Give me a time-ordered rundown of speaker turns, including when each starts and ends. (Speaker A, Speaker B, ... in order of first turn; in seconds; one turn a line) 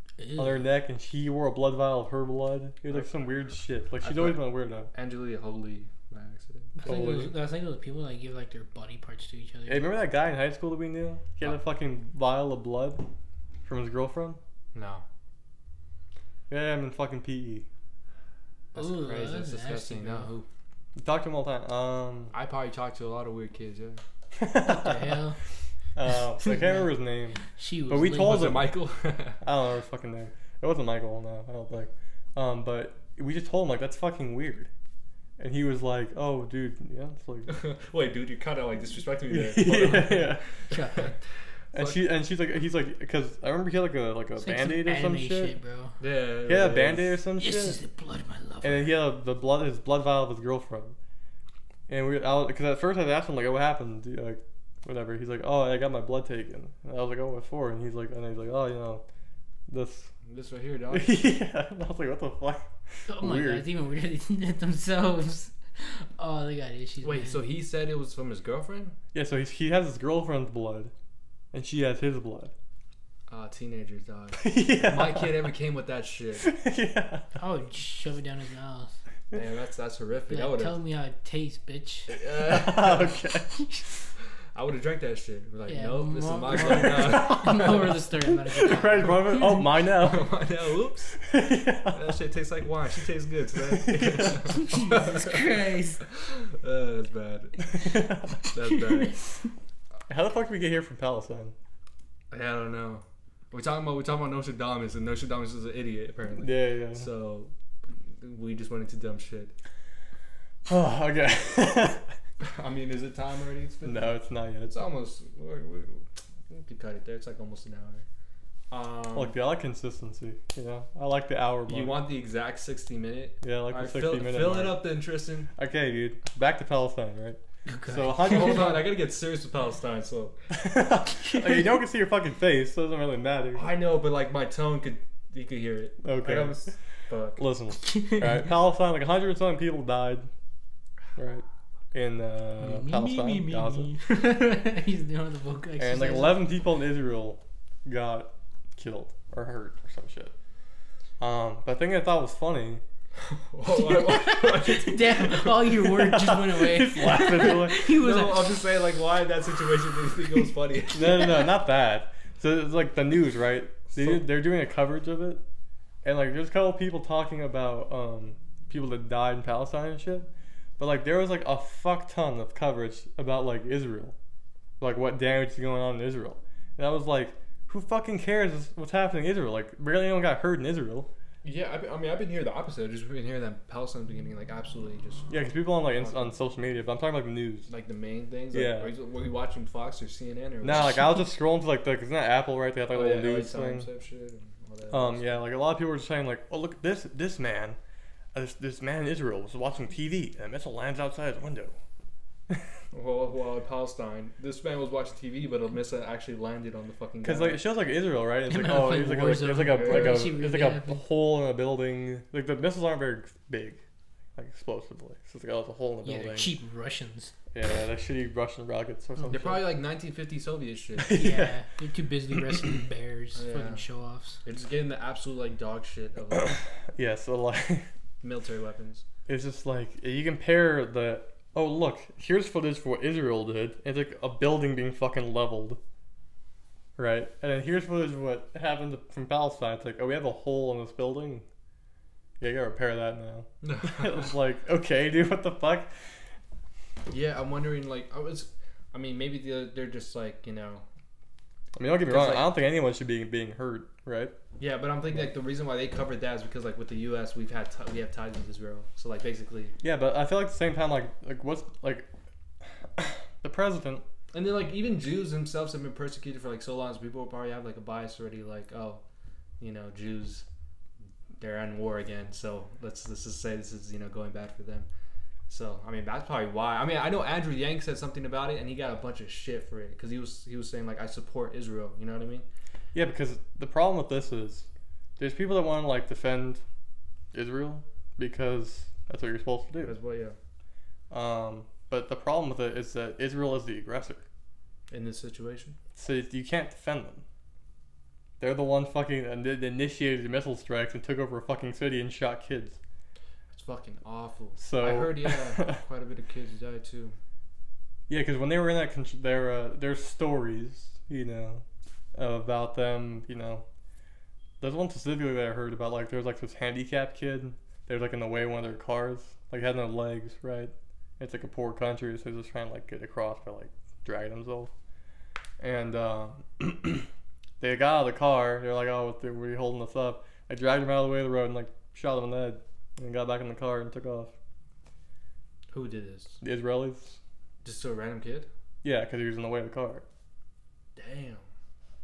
Speaker A: 0.2-0.7
Speaker B: 0.4-4.9
Speaker C: 4.0-6.8
Speaker B: 6.8-7.4
Speaker A: 6.8-9.9
Speaker B: 9.7-13.0
Speaker B: 13.7-14.4
Speaker C: 14.7-15.1
Speaker B: 16.5-17.7
Speaker A: 18.7-20.3
Speaker C: 18.7-20.5
Speaker B: 21.0-22.3
Speaker C: 22.3-24.0
Speaker B: 24.4-25.2
Speaker A: 24.7-25.4
Speaker B: 25.9-28.8
Speaker A: 26.4-26.9
Speaker A: 27.5-28.6
Speaker C: 28.1-29.4
Speaker B: 29.4-34.7
Speaker B: 35.4-37.6
Speaker C: 37.5-41.2
Speaker B: 39.3-40.8
Speaker A: 40.7-41.1
Speaker B: 41.7-45.6
Speaker C: 41.8-42.0
Speaker A: 44.4-46.0
Speaker C: 46.0-47.1
Speaker B: 46.5-47.8
Speaker A: 47.4-48.9
Speaker B: 48.6-51.0
Speaker B: 51.9-59.0
Speaker B: 59.7-60.1
Speaker C: 60.3-61.2
Speaker B: 60.9-63.7
Speaker A: 63.1-67.4
Speaker C: 67.0-69.0
Speaker B: 69.1-70.9
Speaker B: 71.5-72.5
Speaker C: 73.3-76.5
Speaker B: 74.4-75.5
Speaker B: 76.4-77.3
Speaker A: 77.4-79.0
Speaker C: 79.3-80.8
Speaker A: 80.3-82.2
Speaker C: 82.1-83.2
Speaker B: 82.4-83.6
Speaker A: 83.5-83.8
Speaker C: 84.5-88.0
Speaker A: 85.7-89.7
Speaker B: 86.9-87.8
Speaker B: 88.5-90.4
Speaker C: 90.0-91.1
Speaker B: 91.2-92.2
Speaker C: 91.9-95.5
Speaker B: 93.7-94.6
Speaker A: 94.5-96.0
Speaker C: 96.1-97.6
Speaker B: 97.6-98.4
Speaker C: 98.5-99.2
Speaker A: 98.6-99.5
Speaker B: 100.1-101.5
Speaker C: 102.3-109.5
Speaker B: 106.4-107.1
Speaker B: 110.7-112.1
Speaker C: 112.4-114.1
Speaker B: 113.8-114.8
Speaker C: 114.7-118.0
Speaker C: 118.7-119.3
Speaker B: 119.2-122.0
Speaker C: 121.7-125.5
Speaker B: 123.4-124.8
Speaker B: 125.6-128.9
Speaker A: 127.7-128.7
Speaker C: 128.2-130.4
Speaker B: 130.5-133.7
Speaker A: 131.2-131.8
Speaker C: 133.5-137.4
Speaker B: 136.0-136.7
Speaker B: 137.4-140.3
Speaker A: 137.8-138.5
Speaker B: 141.2-143.9
Speaker A: 142.6-146.4
Speaker B: 145.8-150.3
Speaker B: 151.2-152.8
Speaker C: 153.2-155.7
Speaker A: 153.7-158.6
Speaker B: 155.8-157.9
Speaker C: 157.8-161.4
Speaker B: 160.9-165.4
Speaker C: 164.0-164.2
Speaker B: 166.0-170.3
Speaker B: 170.8-174.2
Speaker B: 174.8-181.1
Speaker C: 181.4-185.3
Speaker B: 185.3-187.7
Speaker C: 186.0-186.3
Speaker C: 187.7-191.2
Speaker B: 188.5-188.9
Speaker B: 190.6-193.9
Speaker C: 192.9-195.3
Speaker B: 194.9-197.8
Speaker B: 198.3-201.8
Speaker C: 202.9-207.6
Speaker B: 207.2-213.8
Speaker A: 208.5-211.0
Speaker C: 209.7-210.4
Speaker B: 214.4-216.6
Speaker A: 216.0-217.3
Speaker B: 217.5-219.7
Speaker C: 219.3-221.2
Speaker B: 221.0-221.6
Speaker A: 221.1-224.4
Speaker B: 222.3-222.7
Speaker C: 223.3-223.8
Speaker C: 224.4-226.6
Speaker B: 226.4-227.9
Speaker C: 228.2-229.1
Speaker B: 229.3-235.8
Speaker B: 237.0-241.4
Speaker B: 242.4-245.9
Speaker C: 243.6-244.3
Speaker C: 247.1-250.8
Speaker B: 251.8-254.3
Speaker C: 252.1-252.5
Speaker C: 254.6-259.8
Speaker B: 259.8-262.1
Speaker B: 263.0-264.0
Speaker C: 264.3-269.0
Speaker C: 269.6-270.5
Speaker C: 271.4-274.9
Speaker C: 275.5-282.5
Speaker B: 282.9-284.7
Speaker B: 285.2-286.6
Speaker B: 287.3-290.0
Speaker C: 289.8-290.4
Speaker B: 291.1-294.2
Speaker C: 294.9-295.8
Speaker B: 295.9-297.2
Speaker B: 298.4-302.8
Speaker C: 303.5-307.2
Speaker B: 304.6-305.8
Speaker B: 308.1-311.6
Speaker B: 312.1-313.6
Speaker B: 314.6-324.7
Speaker B: 325.6-327.1
Speaker B: 327.6-334.3
Speaker C: 335.7-336.4
Speaker B: 336.4-337.2
Speaker C: 337.6-338.5
Speaker B: 338.8-340.0
Speaker C: 341.0-341.4